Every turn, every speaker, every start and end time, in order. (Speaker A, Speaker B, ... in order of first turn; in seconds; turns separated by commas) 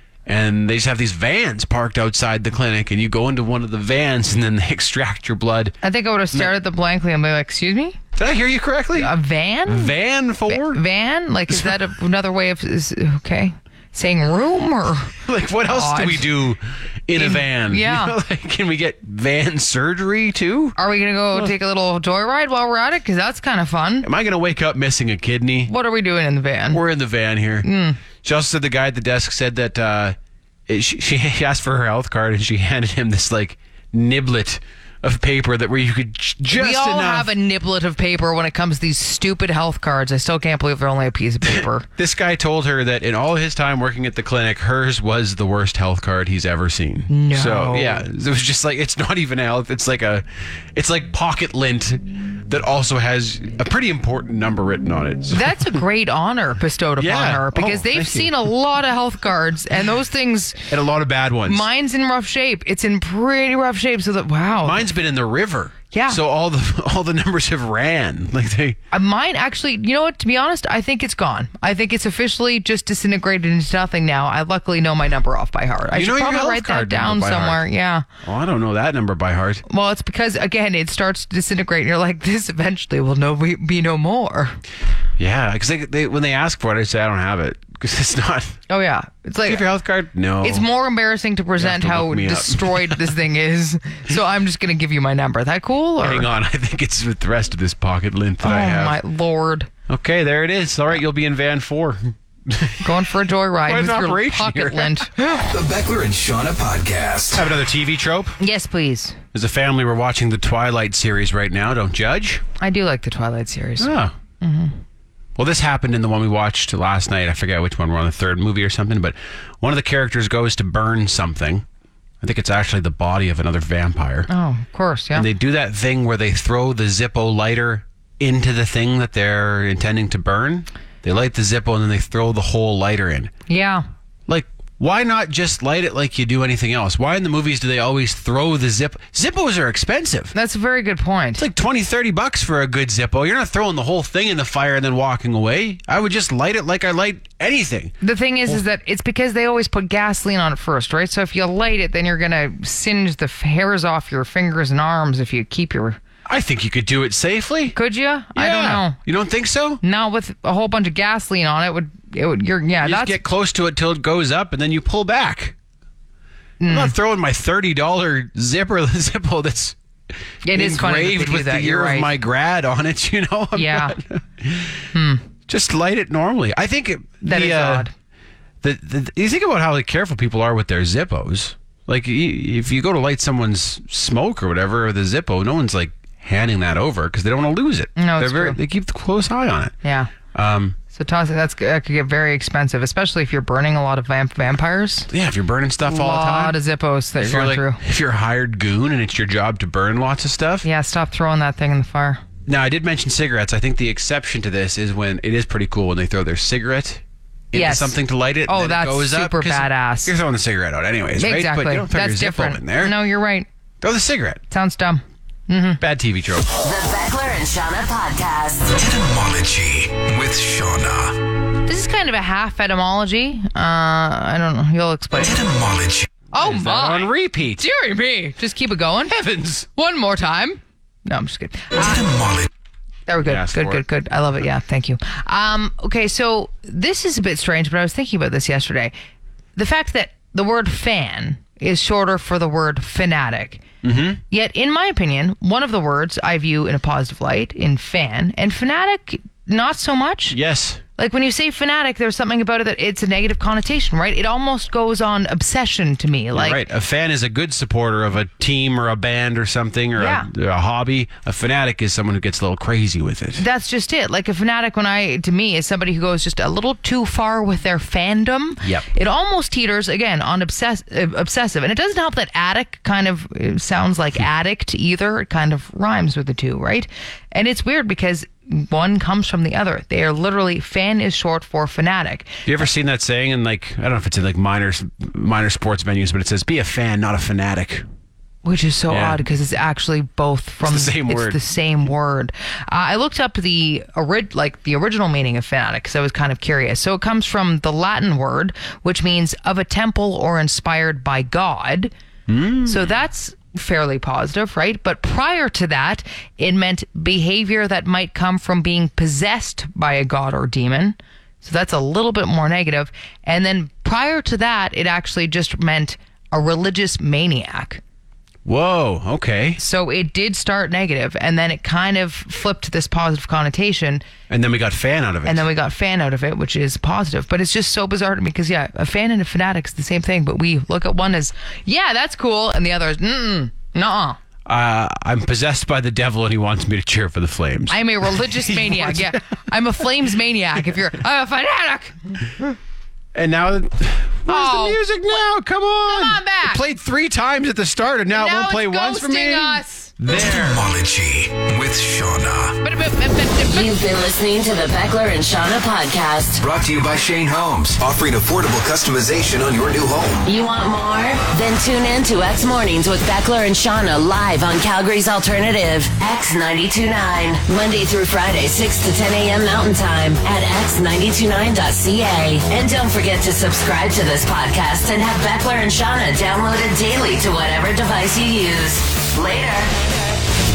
Speaker A: 0.3-5.8, Speaker B: 5.8-8.0, Speaker A: 8.2-9.1, Speaker B: 9.0-9.9, Speaker A: 9.7-10.8, Speaker B: 10.5-15.2, Speaker A: 11.5-11.8, Speaker A: 15.3-20.8, Speaker B: 15.7-16.3, Speaker B: 17.1-18.2, Speaker B: 20.8-24.1, Speaker A: 24.0-25.7, Speaker B: 25.7-26.8, Speaker A: 26.7-27.7, Speaker B: 27.6-28.0, Speaker A: 28.2-30.2, Speaker A: 30.7-37.3, Speaker B: 36.5-41.9, Speaker A: 41.5-55.8, Speaker B: 47.1-48.0, Speaker B: 55.3-60.6, Speaker A: 57.0-58.5, Speaker A: 60.7-61.7, Speaker B: 61.5-64.9, Speaker A: 64.6-68.8, Speaker B: 65.9-66.2, Speaker B: 68.9-78.0, Speaker A: 75.9-77.6, Speaker A: 78.2-79.6, Speaker B: 79.7-84.6, Speaker A: 85.2-88.6, Speaker B: 88.7-89.7, Speaker A: 89.5-90.7, Speaker B: 90.4-96.3, Speaker A: 91.6-93.1, Speaker A: 96.0-99.0, Speaker B: 98.4-99.7, Speaker A: 99.9-102.9, Speaker B: 102.8-105.5, Speaker A: 103.7-105.1, Speaker C: 105.5-107.5, Speaker A: 107.3-108.4, Speaker B: 108.4-109.2, Speaker A: 109.3-112.4, Speaker B: 112.6-114.8, Speaker A: 113.8-114.2, Speaker A: 115.4-121.7, Speaker A: 122.2-124.3, Speaker B: 124.3-125.3, Speaker A: 125.1-133.3, Speaker B: 133.5-133.8, Speaker A: 134.3-140.3, Speaker B: 140.3-141.5, Speaker A: 141.4-147.9, Speaker B: 148.0-156.0, Speaker A: 156.3-157.8, Speaker B: 157.7-159.0, Speaker A: 158.3-159.8, Speaker B: 159.8-163.2, Speaker A: 162.8-165.6, Speaker B: 166.6-166.9, Speaker A: 166.7-169.8, Speaker B: 170.4-172.2, Speaker A: 170.5-174.9, Speaker B: 173.6-174.0, Speaker B: 174.9-175.2, Speaker A: 175.5-177.9, Speaker B: 177.2-177.9, Speaker A: 178.6-189.7, Speaker B: 188.0-188.6, Speaker B: 189.8-190.1, Speaker A: 190.3-190.8, Speaker B: 190.9-195.1, Speaker A: 195.1-196.6, Speaker B: 195.9-197.8, Speaker A: 197.2-200.7, Speaker B: 200.6-202.2, Speaker A: 202.5-213.0, Speaker B: 207.5-210.2, Speaker B: 211.2-213.5, Speaker A: 213.8-214.4, Speaker B: 214.5-215.8, Speaker A: 215.8-216.5, Speaker D: 216.6-218.8, Speaker C: 218.8-221.2, Speaker B: 221.7-225.4, Speaker C: 225.2-226.1, Speaker A: 226.1-227.7, Speaker B: 226.3-229.2, Speaker A: 229.1-229.7, Speaker B: 229.7-232.0, Speaker C: 231.8-232.5, Speaker B: 233.1-238.9, Speaker A: 233.2-233.8, Speaker B: 239.6-243.6, Speaker A: 243.8-244.2, Speaker B: 244.3-250.4, Speaker A: 250.3-250.8, Speaker B: 251.0-256.6, Speaker A: 256.3-263.4, Speaker B: 260.0-260.3, Speaker B: 263.4-282.3, Speaker A: 282.5-287.9, Speaker B: 288.4-301.9, Speaker A: 288.9-289.2, Speaker A: 290.6-291.4, Speaker A: 302.3-302.9, Speaker B: 302.6-317.8, Speaker A: 318.4-319.6, Speaker B: 319.6-324.0, Speaker A: 324.3-325.5, Speaker B: 325.2-334.2, Speaker A: 334.5-339.2, Speaker B: 337.7-342.3, Speaker A: 343.1-350.7, Speaker B: 344.3-344.9, Speaker B: 345.9-346.6, Speaker B: 348.1-349.9, Speaker C: 350.0-352.6, Speaker B: 352.6-353.8, Speaker D: 353.5-356.4, Speaker C: 356.4-360.2, Speaker D: 360.2-379.7